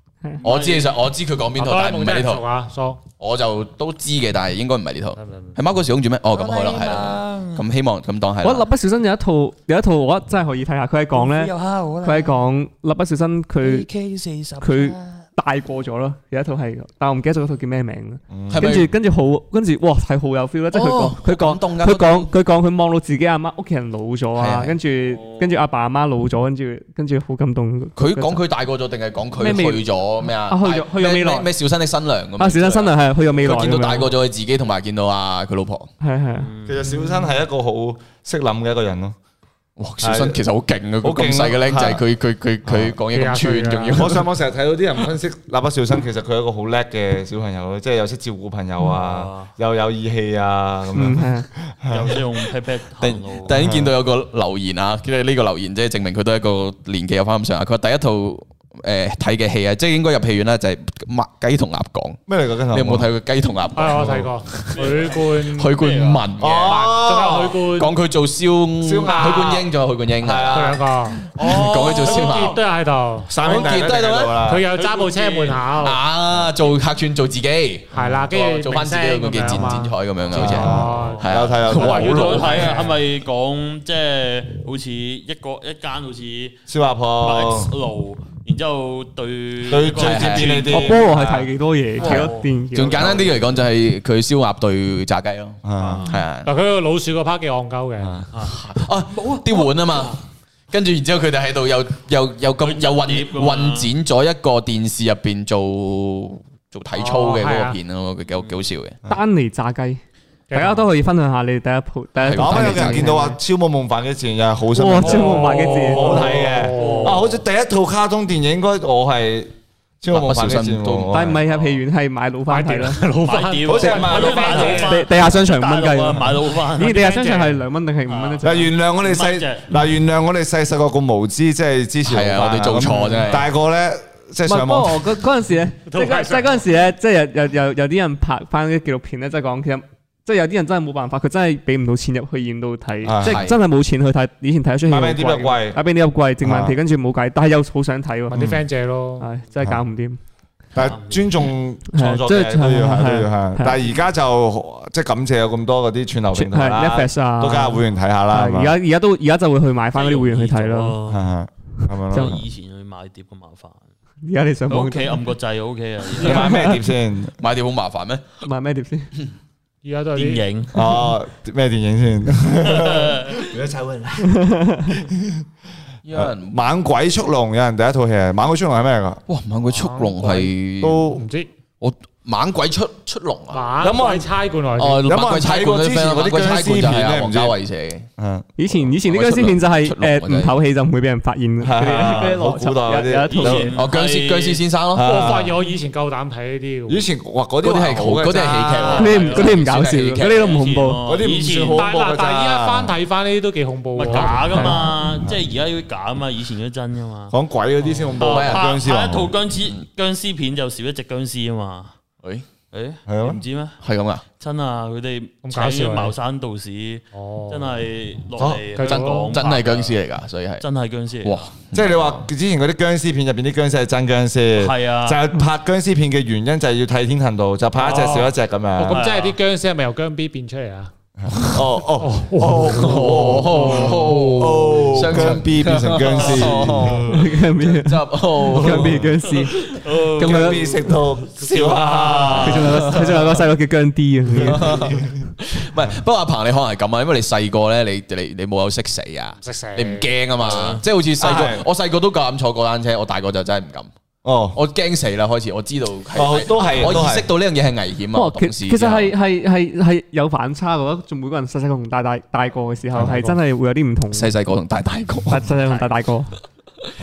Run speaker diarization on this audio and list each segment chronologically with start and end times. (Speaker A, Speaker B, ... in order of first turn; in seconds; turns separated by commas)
Speaker A: 0.4-2.4, Speaker B: 0.4-0.9, Speaker C: 1.6-3.0, Speaker A: 3.2-8.7, Speaker C: 5.2-5.6, Speaker B: 6.3-7.6, Speaker D: 8.4-13.9, Speaker B: 11.1-12.4, Speaker B: 13.6-15.2, Speaker D: 14.6-28.4, Speaker E: 18.3-18.7, Speaker A: 18.5-18.9, Speaker A: 20.7-22.3, Speaker A: 24.4-24.8, Speaker B: 25.1-25.6, Speaker A: 27.9-35.9, Speaker D: 29.4-31.5, Speaker D: 32.4-34.1, Speaker D: 36.0-36.5, Speaker B: 36.4-37.0, Speaker E: 36.6-39.1, Speaker A: 39.8-44.3, Speaker E: 40.0-40.4, Speaker E: 41.0-42.0, Speaker E: 42.6-43.0, Speaker C: 43.1-44.1, Speaker E: 43.9-52.2, Speaker B: 48.8-49.5, Speaker D: 50.9-51.5, Speaker B: 51.9-53.6, Speaker A: 53.0-62.2, Speaker E: 53.5-53.9, Speaker E: 62.3-63.1, Speaker A: 62.7-66.9, Speaker C: 63.7-65.7, Speaker E: 64.0-64.3, Speaker B: 64.7-66.2, Speaker E: 66.4-67.6, Speaker C: 66.6-67.9, Speaker A: 67.7-72.6, Speaker E: 68.8-69.7, Speaker C: 69.0-69.6, Speaker E: 70.2-70.9, Speaker C: 70.5-73.8, Speaker B: 71.4-72.6, Speaker E: 73.3-74.7, Speaker A: 73.4-74.4, Speaker C: 74.3-76.0, Speaker B: 74.7-75.7, Speaker A: 75.8-82.7, Speaker C: 77.9-83.0, Speaker E: 80.3-82.6, Speaker B: 80.8-86.6, Speaker E: 86.7-87.7, Speaker B: 87.2-91.0, Speaker E: 89.6-91.5, Speaker A: 89.9-90.7, Speaker D: 90.5-93.3, Speaker B: 92.0-92.5, Speaker A: 92.0-96.5, Speaker E: 95.6-96.1, Speaker B: 95.8-96.1, Speaker C: 96.4-98.2, Speaker E: 98.0-98.2, Speaker B: 98.3-98.6, Speaker A: 98.5-100.2, Speaker B: 99.1-100.1, Speaker A: 100.7-109.0, Speaker B: 102.6-103.9, Speaker C: 106.9-107.8, Speaker D: 109.0-110.0, Speaker C: 110.5-110.8, Speaker D: 110.5-113.4, Speaker A: 112.2-113.1, Speaker E: 112.3-121.4, Speaker D: 114.7-116.3, Speaker C: 115.0-117.2, Speaker B: 116.5-117.4, Speaker A: 120.1-121.3, Speaker D: 121.1-123.2, Speaker B: 121.5-121.8, Speaker C: 122.5-125.0, Speaker B: 123.2-127.0, Speaker E: 123.6-124.9, Speaker D: 124.8-128.7, Speaker C: 126.8-127.6, Speaker B: 128.1-128.5, Speaker E: 128.4-135.1, Speaker B: 129.0-129.7, Speaker A: 132.0-133.5, Speaker D: 134.4-148.4, Speaker C: 135.9-136.6, Speaker E: 143.0-143.5, Speaker A: 143.2-143.6, Speaker E: 144.9-145.8, Speaker E: 146.4-146.8, Speaker C: 148.3-149.3, Speaker E: 148.3-148.6, Speaker D: 149.2-150.2, Speaker E: 150.7-158.7, Speaker B: 150.8-151.5, Speaker D: 151.9-153.8, Speaker D: 156.3-161.0, Speaker B: 159.9-161.3, Speaker E: 161.1-162.4, Speaker D: 161.8-162.4, Speaker B: 162.1-163.9, Speaker D: 164.2-165.2, Speaker B: 164.7-166.7, Speaker E: 166.2-167.3, Speaker D: 166.2-166.8, Speaker A: 167.4-168.3, Speaker D: 168.4-169.1, Speaker C: 169.8-170.5, Speaker B: 170.1-170.7, Speaker E: 170.7-175.4, Speaker B: 172.6-173.5, Speaker D: 174.2-175.0, Speaker A: 176.0-176.6, Speaker E: 176.1-179.2, Speaker A: 179.3-181.2, Speaker C: 179.7-180.5, Speaker E: 180.8-181.2, Speaker C: 181.1-181.5, Speaker A: 181.8-183.7, Speaker C: 183.5-185.1, Speaker E: 183.8-184.3, Speaker A: 184.8-188.1, Speaker E: 185.0-187.6, Speaker E: 188.2-188.5, Speaker D: 188.6-193.7, Speaker A: 189.0-190.6, Speaker E: 191.6-193.7, Speaker B: 193.2-194.6, Speaker A: 193.7-195.4, Speaker E: 194.9-195.6, Speaker C: 195.0-197.1, Speaker E: 196.9-198.8, Speaker A: 197.6-200.6, Speaker C: 198.4-199.1, Speaker B: 198.6-199.7, Speaker D: 198.9-201.2, Speaker B: 200.2-201.9, Speaker E: 201.0-202.9, Speaker C: 201.7-204.8, Speaker B: 203.9-207.3, Speaker D: 204.5-204.8, Speaker E: 207.3-209.3, Speaker B: 208.0-211.9, Speaker A: 208.2-208.7, Speaker B: 212.7-213.8, Speaker E: 213.1-213.4, Speaker A: 213.8-214.2, Speaker B: 214.4-220.0, Speaker C: 215.4-216.1, Speaker C: 217.1-217.8, Speaker E: 218.4-218.6, Speaker C: 218.7-219.4, Speaker A: 218.8-220.6, Speaker B: 220.6-221.5, Speaker A: 221.2-221.9, Speaker E: 221.7-229.1, Speaker B: 224.6-225.2, Speaker C: 227.8-230.9, Speaker B: 227.8-228.2, Speaker B: 228.9-229.4, Speaker E: 231.2-237.3, Speaker C: 232.0-234.3, Speaker A: 232.5-239.0, Speaker D: 237.0-240.9, Speaker E: 238.6-239.1, Speaker B: 239.4-243.2, Speaker E: 240.2-242.9, Speaker D: 242.3-244.9, Speaker E: 244.3-245.3, Speaker A: 244.4-253.9, Speaker C: 249.4-250.1, Speaker B: 250.4-250.8, Speaker E: 251.2-251.7, Speaker E: 254.2-254.6, Speaker A: 254.5-259.1, Speaker E: 256.1-257.3, Speaker D: 258.1-264.3, Speaker E: 262.9-263.4, Speaker A: 264.1-265.9, Speaker D: 265.3-266.3